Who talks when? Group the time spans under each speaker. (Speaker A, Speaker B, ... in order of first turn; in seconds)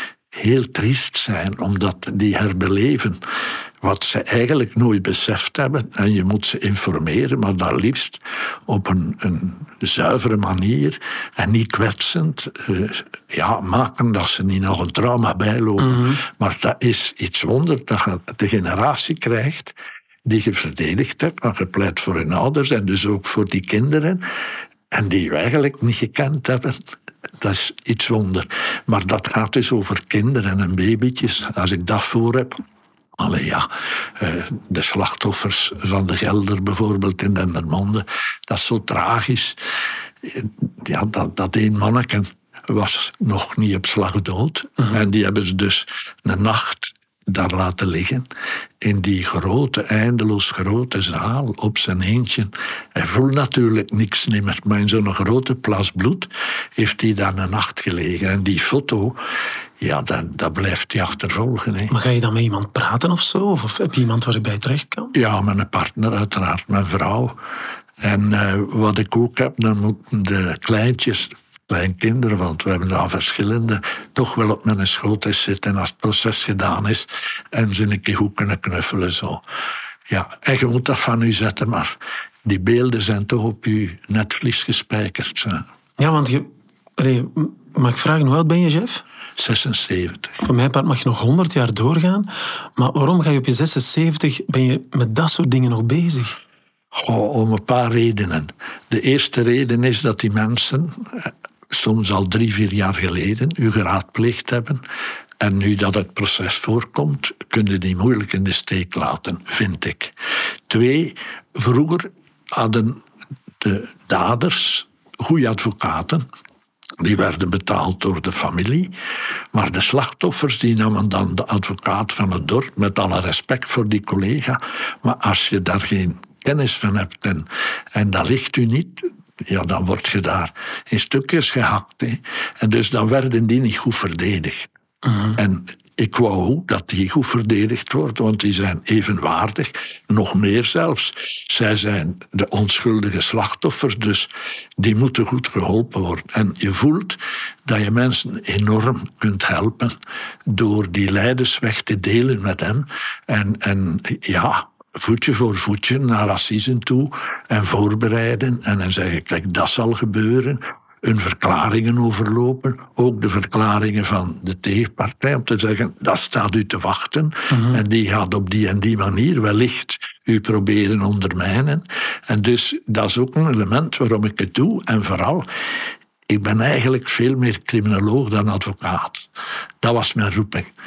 Speaker A: 0.3-3.2, 3.8-19.8, 20.3-24.2, 24.9-26.8, 27.4-32.6, 33.2-48.3, 48.8-59.2, 59.8-61.9, 65.1-67.4, 68.0-79.4, 80.1-81.9, 82.5-85.6, 89.4-90.4, 96.9-104.8, 105.4-110.1, 110.7-113.0, 113.6-116.2, 117.0-118.9, 119.5-134.7, 135.3-149.9, 150.5-175.4, 176.3-179.3, 179.8-180.7
Speaker B: 15.8-16.2, 61.9-65.1, 86.0-89.0, 90.4-96.4, 135.0-135.4, 167.5-167.8